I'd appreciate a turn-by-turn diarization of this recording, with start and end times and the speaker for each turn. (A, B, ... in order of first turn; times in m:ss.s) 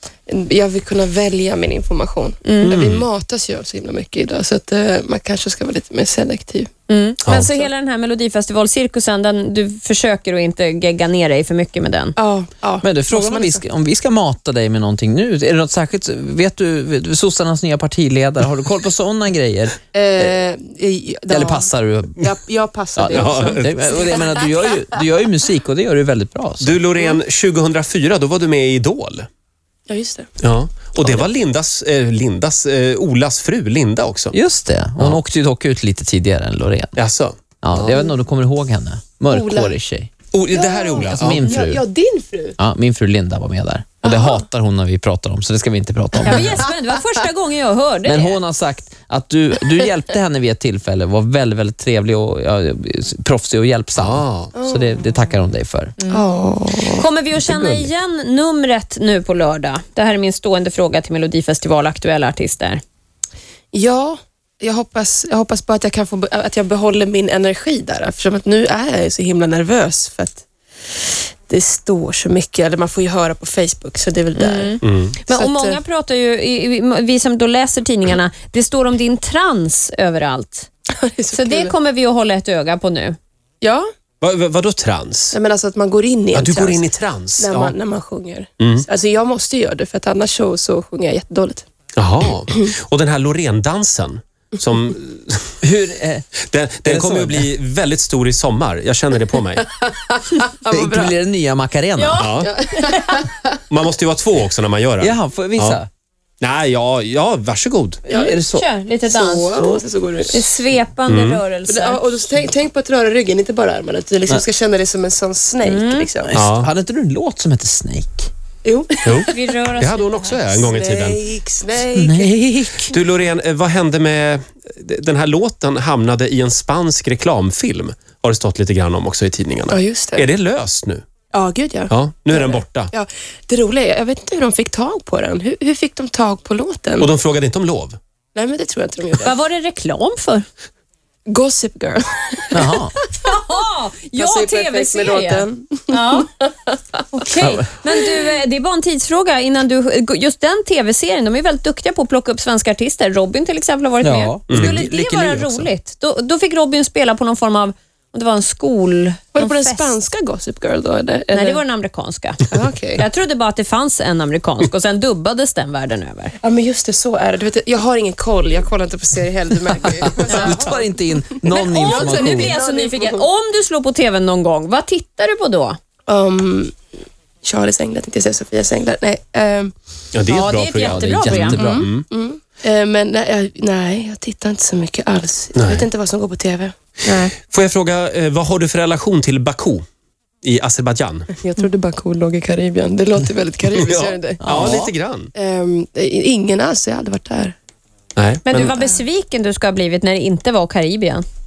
0:00.3-0:06.7 A
0:02.4-0:02.7 B
0:02.6-0:03.1 C
0:06.9-0:12.2 B
0:07.2-0:07.5 C
0:12.2-0:13.6 A
0:12.8-0:20.4 D
0:19.9-0:24.5 A
0:21.3-0:22.3 D
0:23.0-0:26.8 D
0:23.1-0:24.0 C
0:26.6-0:29.3 C
0:29.9-0:30.3 A
0:30.4-0:34.4 C
0:34.3-0:37.0 D
0:37.0-0:38.1 C
0:37.6-0:40.1 D
0:39.3-0:39.8 A
0:40.3-0:41.6 C
0:40.5-0:42.6 A
0:41.0-0:41.8 D
0:42.6-0:46.6 D
0:44.0-0:44.5 A
0:46.2-0:48.4 B
0:48.0-0:56.0 D
0:54.0-0:54.5 C
0:54.6-0:55.0 A
0:56.1-0:57.1 A
0:56.9-1:02.8 B
0:57.4-0:57.9 D
1:03.7-1:10.4 A
1:11.0-1:15.8 A
1:14.4-1:20.7 B
1:14.8-1:15.2 C
1:21.0-1:21.7 A
1:21.3-1:23.2 B
1:23.6-1:23.9 A
1:24.2-1:25.4 C
1:25.3-1:31.6 A
1:26.3-1:27.8 C
1:28.6-1:28.8 C
1:32.0-1:35.6 C
1:35.6-1:36.3 D
1:36.4-1:39.7 C
1:36.8-1:37.5 D
1:39.9-1:41.1 A
1:40.7-1:42.3 D
1:42.0-1:43.1 B
1:42.2-1:42.5 C
1:42.4-1:43.5 A
1:43.7-1:45.8 C
1:45.0-1:45.9 D
1:46.4-1:48.0 C
1:48.1-1:48.4 A
1:48.1-1:48.7 D
1:48.2-1:52.1 B
1:49.0-1:50.5 A
1:51.1-1:51.4 C
1:51.7-1:56.4 A
1:55.6-1:56.1 B
1:56.3-1:58.3 D
1:56.3-1:56.7 C
1:58.6-1:59.3 A
1:59.0-2:01.3 C
1:59.3-2:00.6 B
2:00.6-2:02.9 A
2:01.9-2:02.9 D
2:02.9-2:11.0 C
2:09.7-2:10.3 A
2:11.3-2:17.1 A
2:11.9-2:12.9 C
2:17.0-2:18.0 C
2:18.4-2:19.4 A
2:19.2-2:20.5 B
2:21.3-2:23.1 A
2:22.5-2:22.9 D
2:23.2-2:26.3 B
2:24.2-2:26.8 A
2:27.1-2:40.0 B
2:34.0-2:35.7 D
2:34.5-2:34.8 C
2:39.4-2:41.6 A
2:41.3-2:42.4 B
2:42.5-2:43.0 A
2:43.0-2:46.4 B
2:46.4-2:50.8 A
2:50.1-2:52.6 D
2:51.5-2:55.8 B
2:51.6-2:53.3 A
2:56.1-2:56.7 A
2:57.4-2:59.7 A
3:00.1-3:02.1 C
3:00.3-3:01.6 B
3:00.8-3:01.9 D
3:01.6-3:07.3 A
3:05.6-3:05.9 C
3:07.4-3:09.8 C
3:10.4-3:11.3 C
3:11.4-3:17.6 A
3:13.8-3:15.3 C
3:14.4-3:14.9 D
3:18.2-3:18.7 C
3:18.5-3:21.2 B